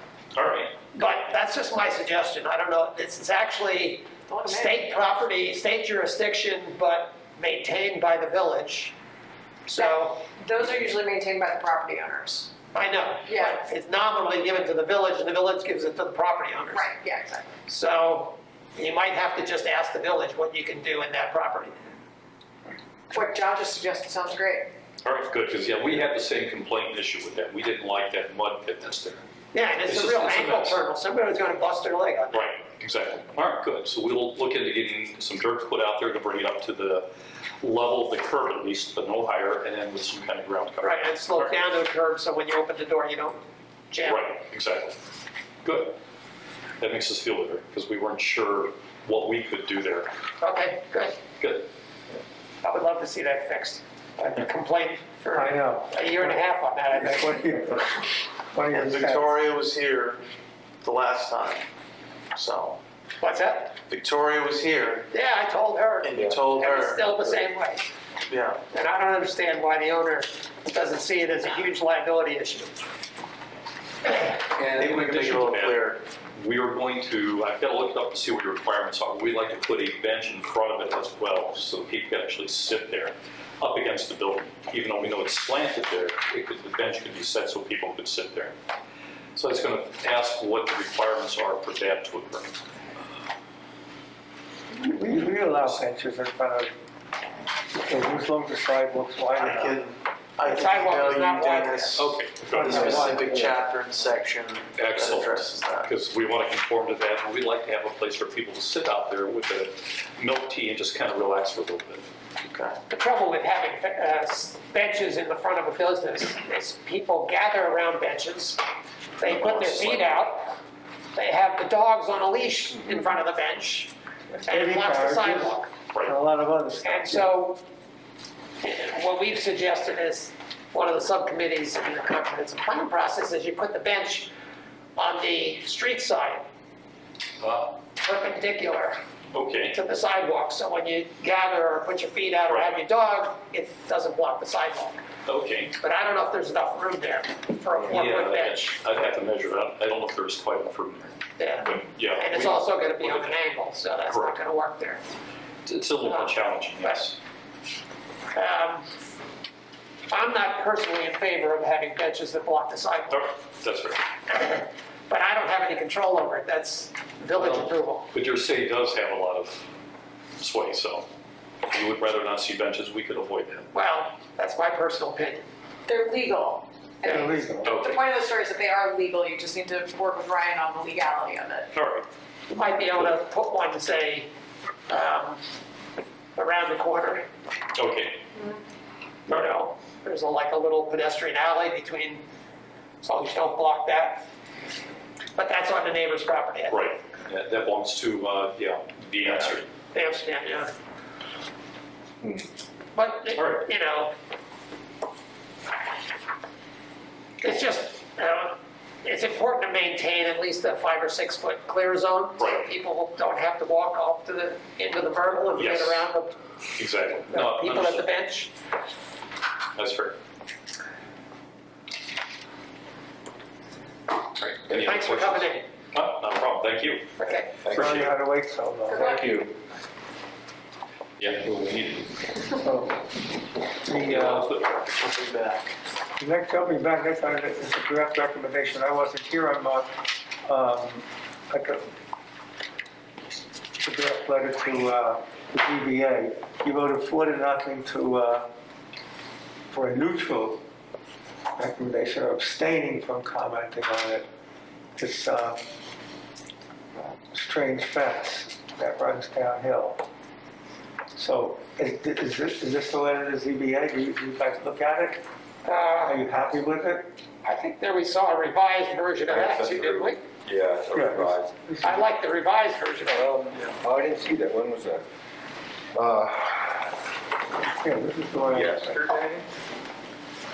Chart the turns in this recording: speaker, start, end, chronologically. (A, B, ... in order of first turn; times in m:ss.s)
0:00.3-0:00.7 A
0:00.9-0:08.9 B
0:04.3-0:04.9 C
0:09.7-0:10.2 B
0:09.7-0:12.5 C
0:12.7-0:16.9 B
0:13.2-0:13.6 C
0:16.7-0:17.4 C
0:17.6-0:21.9 B
0:23.1-0:24.7 C
0:25.0-0:29.2 A
0:29.5-0:32.5 B
0:29.9-0:30.8 A
0:32.3-0:37.1 A
0:37.6-0:41.5 A
0:40.8-0:43.4 B
0:43.9-0:44.3 B
0:44.0-0:45.0 A
0:45.6-0:46.0 A
0:46.8-0:50.1 A
0:50.4-0:51.2 B
0:51.4-0:51.6 A
0:52.6-0:57.6 B
0:55.3-0:56.4 D
0:56.9-0:59.3 D
0:58.7-1:00.2 E
1:00.8-1:01.6 E
1:02.3-1:02.8 E
1:03.2-1:03.7 B
1:03.9-1:05.1 E
1:05.1-1:07.8 B
1:06.0-1:07.3 E
1:06.1-1:06.5 F
1:08.3-1:08.6 E
1:08.7-1:12.7 B
1:14.6-1:16.0 E
1:14.6-1:28.5 A
1:29.3-1:32.6 A
1:34.7-1:36.7 D
1:37.8-1:39.8 D
1:39.4-1:45.9 E
1:40.4-1:42.0 B
1:42.0-1:43.2 A
1:42.4-1:43.6 D
1:44.7-1:52.0 A
1:52.4-1:52.8 E
1:52.9-1:58.6 B
1:59.2-2:00.6 B
1:59.2-2:00.2 A
2:01.1-2:03.9 B
2:04.4-2:07.3 D
2:04.5-2:05.7 B
2:05.9-2:06.2 A
2:06.8-2:07.6 B
2:08.6-2:14.3 B
2:15.0-2:16.4 B
2:17.4-2:17.7 A
2:18.0-2:19.0 B
2:19.3-2:19.8 A
2:19.7-2:25.0 B
2:22.5-2:22.8 A
2:25.2-2:25.8 A
2:25.8-2:28.7 B
2:27.9-2:33.4 A
2:31.4-2:35.0 B
2:34.1-2:34.4 A
2:35.6-2:37.2 A
2:36.0-2:37.0 B
2:38.3-2:38.9 B
2:40.1-2:43.3 B
2:43.1-2:44.0 A
2:44.3-2:48.1 B
2:47.3-2:49.7 A
2:50.4-2:51.1 A
2:51.7-2:53.7 A
2:53.7-2:55.4 B
2:55.9-3:01.7 C
2:57.0-2:57.8 D
2:57.6-2:58.0 A
3:01.7-3:02.0 A
3:02.5-3:04.3 B
3:04.9-3:05.4 B
3:06.4-3:07.2 B
3:07.7-3:08.2 A
3:09.3-3:12.2 B
3:13.0-3:14.2 B
3:15.4-3:16.8 B
3:16.7-3:19.7 A
3:19.9-3:20.7 B
3:22.9-3:24.1 B
3:23.4-3:23.6 A
3:27.4-3:36.3 B
3:32.4-3:32.6 A
3:35.6-3:36.1 A
3:36.8-3:38.1 A
3:37.2-3:38.5 B
3:39.8-3:40.2 A
3:44.4-3:48.1 A
3:44.7-3:45.6 B
3:47.2-3:47.5 B
3:47.6-3:48.1 F
3:47.7-3:49.2 D
3:48.9-3:49.3 C
3:48.9-3:49.5 F
3:51.2-3:52.2 A
3:52.6-3:53.1 D
3:53.8-3:54.5 D
3:54.0-3:55.6 A
3:55.0-3:55.6 E
3:56.2-4:01.9 D
4:03.8-4:08.5 D
4:09.7-4:10.6 D
4:11.6-4:14.2 D
4:15.0-4:15.6 D
4:17.3-4:20.0 D
4:21.1-4:25.2 D
4:25.6-4:26.2 B
4:26.0-4:27.1 D
4:27.4-4:30.2 B
4:29.3-4:31.5 F
4:30.9-4:32.0 D
4:31.8-4:33.3 B
4:33.1-4:35.0 F
4:35.9-4:36.8 F
4:37.7-4:39.1 D
4:38.5-4:39.4 F